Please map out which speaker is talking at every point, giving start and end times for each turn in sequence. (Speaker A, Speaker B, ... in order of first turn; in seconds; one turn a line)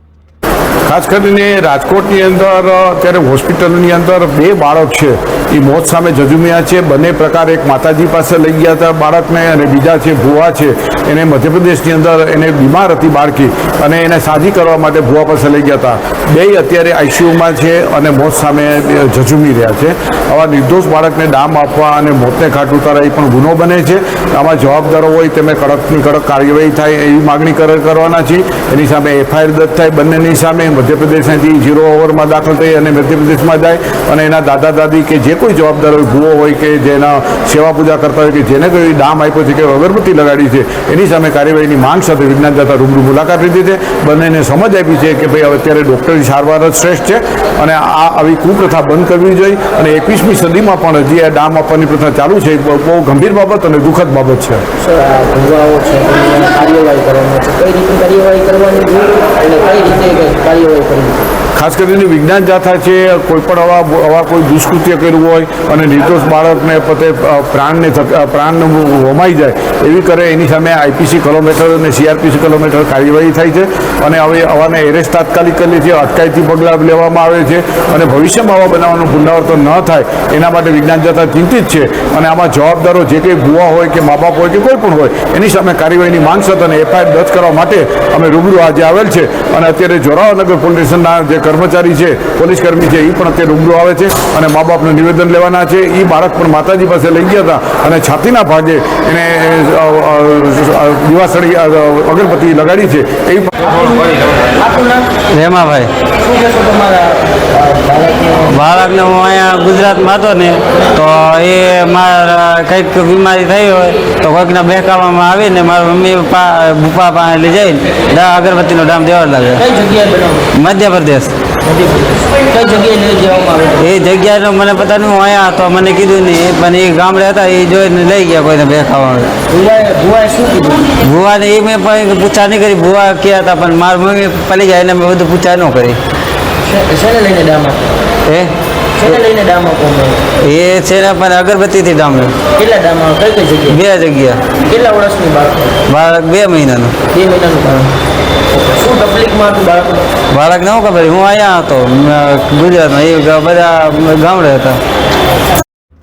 Speaker A: 0.8-54.6
Speaker B: 54.8-61.2
Speaker A: 61.5-104.0
Speaker B: 104.6-105.1
Speaker C: 105.3-105.9
Speaker B: 106.2-108.5
Speaker C: 108.5-119.6
Speaker B: 119.6-120.5
Speaker C: 120.5-121.3
Speaker B: 121.7-123.8
Speaker C: 123.8-129.3
Speaker B: 129.5-130.9
Speaker C: 131.0-136.0
Speaker B: 136.6-138.0
Speaker C: 138.3-138.5
Speaker B: 139.0-140.2
Speaker C: 140.4-142.3
Speaker B: 142.5-143.8
Speaker C: 143.7-144.4
Speaker B: 144.6-145.8
Speaker C: 145.9-147.0
Speaker B: 147.1-147.9
Speaker B: 148.6-150.1
Speaker C: 150.3-154.8